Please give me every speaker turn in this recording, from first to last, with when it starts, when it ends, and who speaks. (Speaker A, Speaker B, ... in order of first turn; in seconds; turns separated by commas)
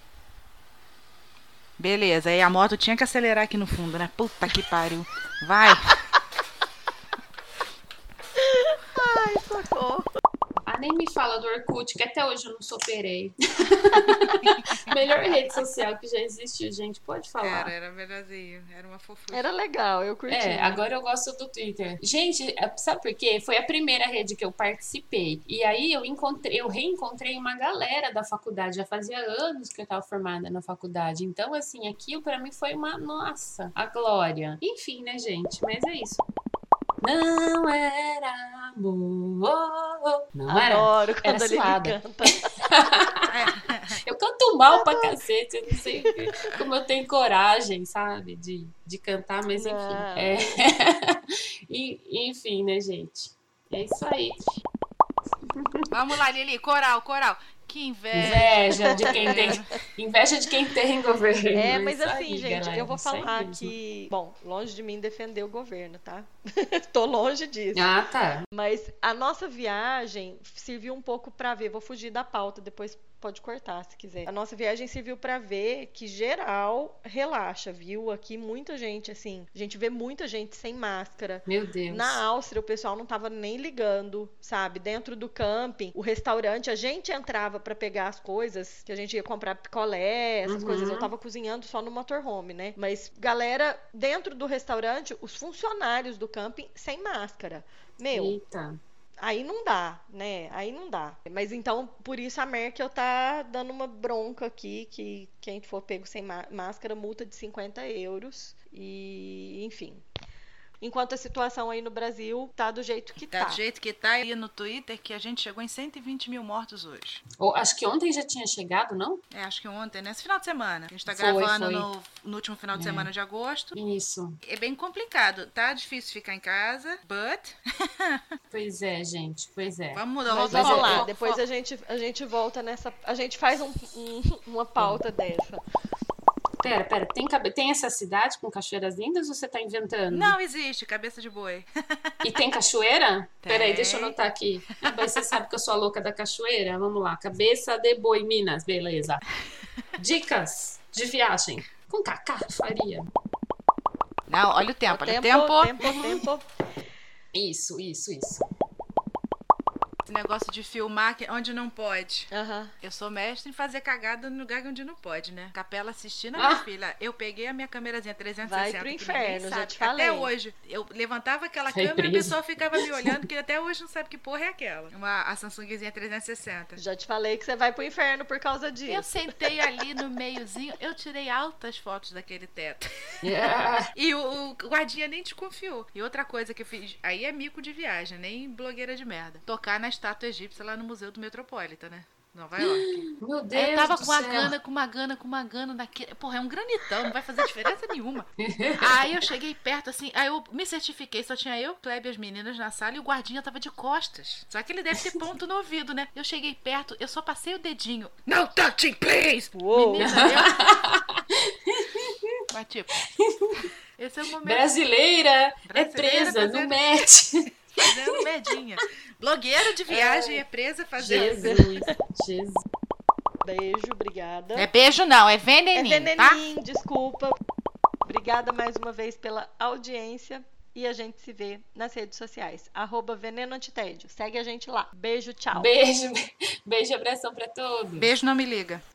Speaker A: 1.8-6.0, Speaker B: 8.4-10.1, Speaker C: 10.7-17.7, Speaker A: 14.3-14.8, Speaker A: 17.4-19.5, Speaker B: 19.3-20.9, Speaker C: 20.3-36.2, Speaker C: 37.0-42.0, Speaker B: 40.5-42.5, Speaker C: 42.6-43.2, Speaker A: 43.3-44.0, Speaker C: 44.0-54.4, Speaker B: 44.7-45.1, Speaker B: 49.5-50.4, Speaker A: 55.9-59.7, Speaker C: 58.1-63.7, Speaker B: 58.9-59.6, Speaker B: 61.5-66.3, Speaker B: 66.9-67.9, Speaker C: 67.7-68.5, Speaker B: 68.5-98.4, Speaker C: 81.5-82.2, Speaker C: 90.5-91.1, Speaker C: 98.1-98.8, Speaker B: 99.2-110.0, Speaker B: 110.8-113.6, Speaker A: 113.3-117.2, Speaker C: 117.4-119.2, Speaker A: 119.3-123.7, Speaker C: 121.1-121.9, Speaker C: 122.7-123.1, Speaker C: 123.7-124.4, Speaker A: 124.4-127.6, Speaker C: 128.5-131.1, Speaker A: 129.9-131.4, Speaker B: 130.2-135.6, Speaker C: 136.6-140.3, Speaker A: 140.1-142.1, Speaker C: 142.2-149.2, Speaker A: 143.4-144.2, Speaker A: 144.9-145.3, Speaker C: 150.0-153.1, Speaker A: 154.3-156.2, Speaker B: 154.9-156.4, Speaker C: 157.3-158.4, Speaker A: 160.1-162.3, Speaker B: 162.3-162.7, Speaker A: 162.8-176.8, Speaker C: 166.3-166.7, Speaker B: 168.4-170.3, Speaker C: 171.7-173.2, Speaker B: 176.8-179.3, Speaker A: 178.9-182.8, Speaker C: 183.2-183.9, Speaker A: 183.9-210.6, Speaker C: 192.6-194.5, Speaker C: 198.4-199.1, Speaker B: 209.7-210.4, Speaker C: 210.0-212.2, Speaker A: 212.5-213.0, Speaker C: 213.2-213.7, Speaker A: 214.0-214.7, Speaker C: 214.4-218.2, Speaker A: 215.7-216.8, Speaker A: 217.8-221.4, Speaker B: 219.9-220.4, Speaker C: 221.0-222.6, Speaker B: 221.1-221.9, Speaker B: 223.4-224.7, Speaker A: 224.5-226.4, Speaker B: 225.7-227.4, Speaker B: 228.0-235.7, Speaker C: 235.5-238.1, Speaker A: 238.0-238.8